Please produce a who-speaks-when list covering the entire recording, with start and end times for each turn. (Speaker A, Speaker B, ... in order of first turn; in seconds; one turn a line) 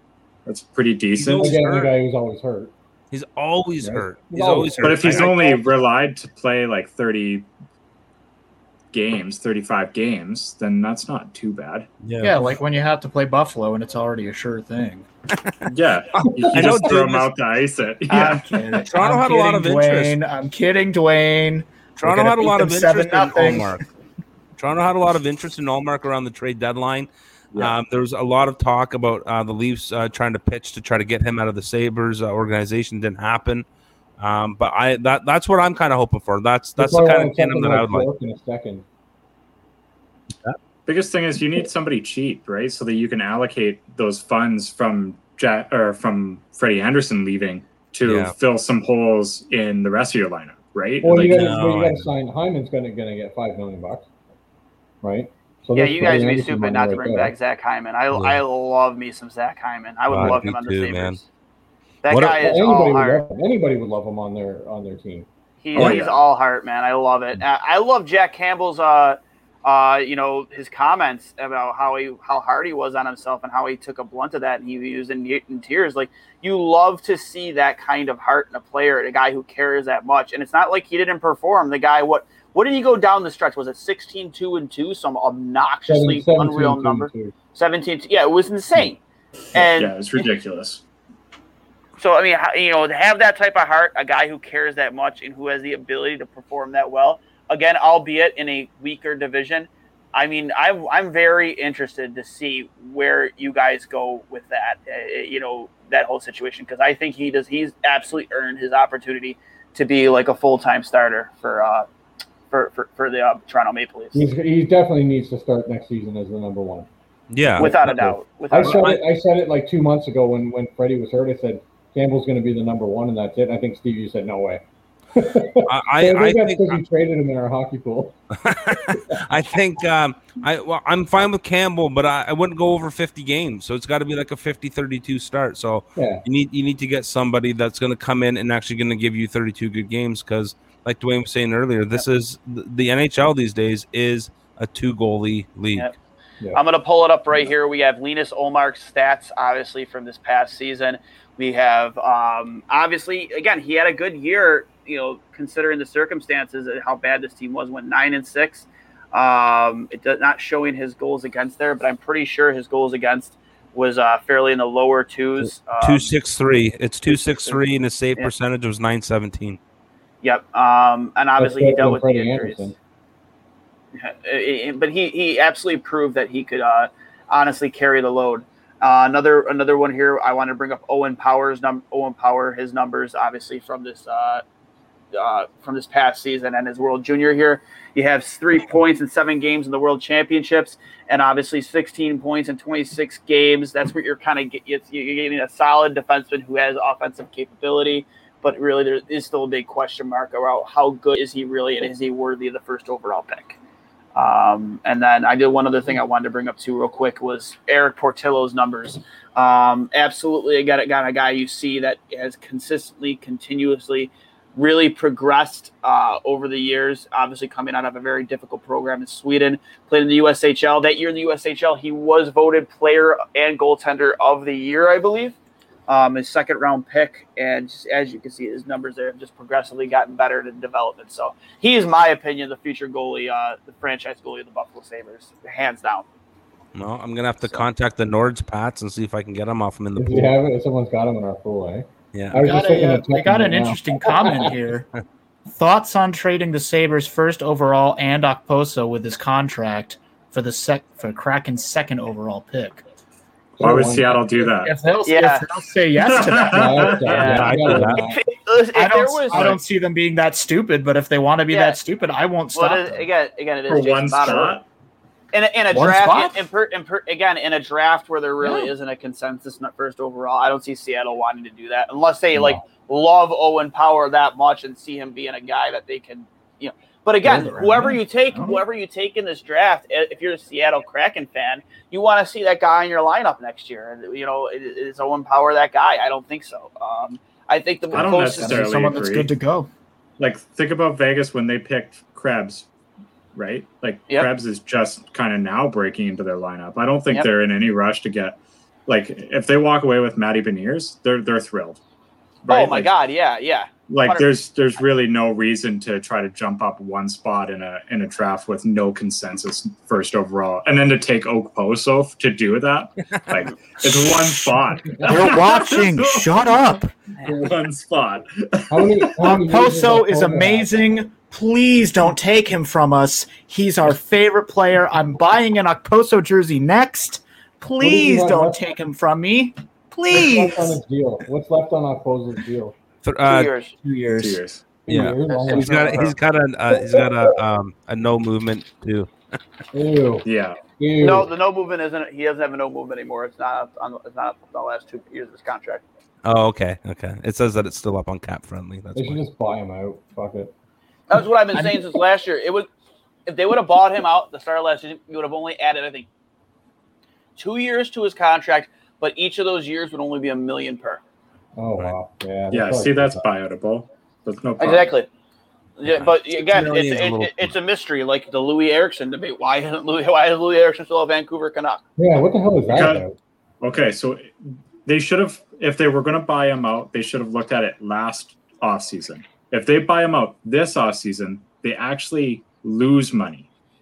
Speaker A: 0.5-1.6
Speaker B: 1.2-1.9
Speaker C: 1.3-2.7
Speaker B: 3.1-5.5
Speaker C: 3.8-5.4
Speaker A: 4.8-7.5
Speaker A: 8.9-11.9
Speaker B: 12.0-12.5
Speaker D: 12.2-15.1
Speaker A: 15.7-18.5
Speaker B: 16.2-17.3
Speaker D: 18.1-23.8
Speaker B: 18.9-20.1
Speaker B: 22.0-23.8
Speaker B: 24.6-33.6
Speaker B: 34.2-38.1
Speaker C: 36.8-38.8
Speaker A: 40.9-51.5
Speaker B: 48.0-48.3
Speaker C: 51.0-54.0
Speaker B: 51.3-52.1
Speaker C: 55.0-57.3
Speaker E: 55.7-61.2
Speaker B: 58.1-58.4
Speaker B: 60.1-61.2
Speaker E: 62.0-63.2
Speaker B: 62.1-62.4
Speaker C: 62.3-65.3
Speaker E: 65.6-89.0
Speaker A: 65.7-66.2
Speaker C: 85.9-87.3
Speaker E: 89.5-89.9
Speaker A: 89.5-90.8
Speaker E: 92.0-111.9
Speaker E: 112.5-114.2
Speaker C: 114.1-116.9
Speaker B: 117.3-119.0
Speaker E: 117.6-118.9
Speaker C: 117.6-124.6
Speaker C: 125.1-128.2
Speaker B: 125.7-126.8
Speaker B: 128.4-145.9
Speaker C: 135.9-136.2
Speaker E: 146.5-166.1
Speaker B: 165.8-169.6
Speaker E: 167.1-167.6
Speaker E: 170.2-172.7
Speaker C: 171.4-172.7
Speaker E: 174.0-184.4
Speaker E: 185.1-203.6
Speaker E: 204.2-225.3
Speaker E: 225.9-236.1
Speaker B: 236.7-240.3
Speaker C: 239.9-244.5
Speaker D: 242.3-244.9
Speaker D: 245.5-252.8
Speaker C: 253.6-254.3
Speaker A: 253.6-254.7
Speaker D: 254.6-257.1
Speaker E: 255.1-255.4
Speaker A: 256.0-257.6
Speaker C: 256.4-258.2
Speaker E: 257.1-259.5
Speaker B: 257.4-258.0
Speaker D: 258.7-263.0
Speaker A: 259.3-259.6
Speaker E: 261.5-261.8
Speaker E: 262.5-264.5
Speaker A: 263.7-264.6
Speaker E: 265.3-288.7
Speaker D: 265.7-266.4
Speaker D: 277.2-278.6
Speaker D: 287.9-289.7
Speaker A: 287.9-289.3
Speaker A: 290.2-292.7
Speaker A: 293.3-301.8
Speaker A: 302.4-302.9
Speaker E: 302.5-304.3
Speaker A: 303.9-316.2
Speaker D: 313.8-316.9
Speaker C: 317.2-317.5
Speaker A: 317.4-319.3
Speaker C: 318.7-320.7
Speaker D: 319.2-330.8
Speaker C: 327.8-328.6
Speaker C: 330.1-332.7
Speaker B: 333.0-333.5
Speaker E: 333.2-333.7
Speaker D: 333.8-334.4
Speaker A: 334.2-334.6
Speaker C: 334.8-336.1
Speaker B: 334.9-339.1
Speaker E: 335.3-336.1
Speaker C: 339.7-341.3
Speaker A: 340.2-340.6
Speaker E: 341.0-345.8
Speaker B: 346.2-349.2
Speaker C: 348.9-350.5
Speaker E: 351.1-352.7
Speaker E: 353.2-356.1
Speaker E: 357.4-361.0
Speaker C: 361.6-363.2
Speaker A: 362.5-364.9
Speaker E: 364.6-365.1
Speaker E: 365.8-371.8
Speaker B: 365.9-367.5
Speaker C: 372.0-373.1
Speaker A: 372.7-373.1
Speaker A: 373.6-383.5